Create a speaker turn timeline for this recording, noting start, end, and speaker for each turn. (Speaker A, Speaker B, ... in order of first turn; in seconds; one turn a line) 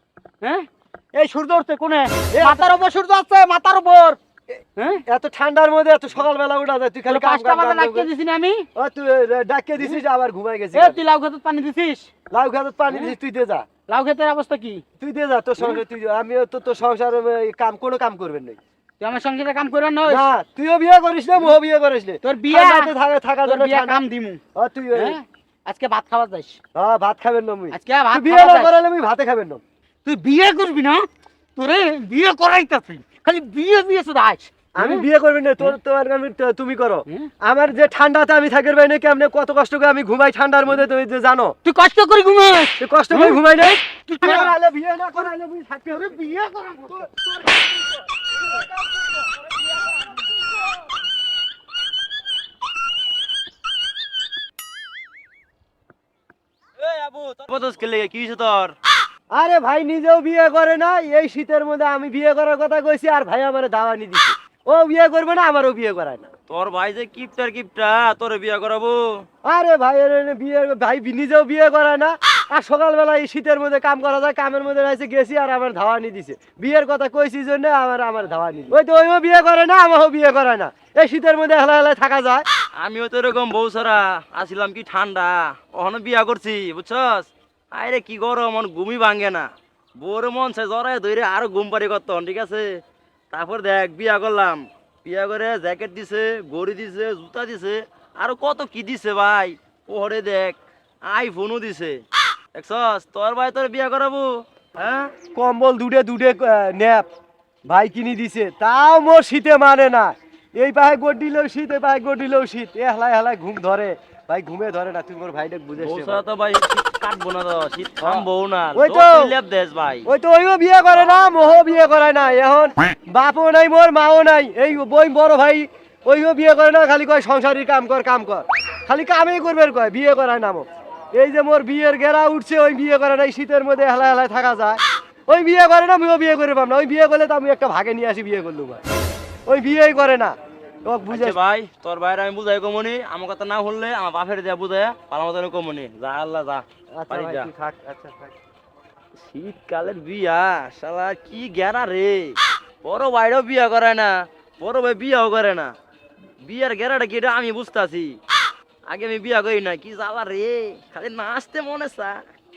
Speaker A: 0.4-4.2
Speaker B: 2.3-2.7
Speaker A: 4.8-5.0
Speaker B: 5.1-8.1
Speaker A: 7.1-8.7
Speaker B: 8.8-11.0
Speaker A: 10.7-12.1
Speaker B: 12.3-13.7
Speaker A: 13.9-14.8
Speaker B: 15.0-18.6
Speaker A: 19.0-20.2
Speaker B: 20.1-24.0
Speaker A: 22.2-22.9
Speaker A: 23.4-24.4
Speaker B: 24.6-25.2
Speaker A: 24.9-26.6
Speaker B: 26.7-29.6
Speaker A: 27.7-28.7
Speaker A: 30.1-31.1
Speaker A: 31.6-35.1
Speaker B: 34.8-41.5
Speaker A: 41.6-44.5
Speaker B: 42.8-46.1
Speaker A: 45.1-47.9
Speaker C: 56.8-58.8
Speaker B: 59.3-66.3
Speaker C: 66.5-69.3
Speaker B: 69.5-82.5
Speaker C: 82.8-92.7
Speaker C: 93.3-102.0
Speaker C: 102.5-105.1
Speaker B: 105.2-107.1
Speaker B: 107.7-116.2
Speaker C: 115.8-120.1
Speaker B: 118.0-119.3
Speaker B: 120.0-138.8
Speaker B: 139.5-141.4
Speaker C: 141.1-147.5
Speaker B: 146.9-148.3
Speaker C: 149.2-155.7
Speaker C: 156.4-158.2
Speaker C: 158.9-162.2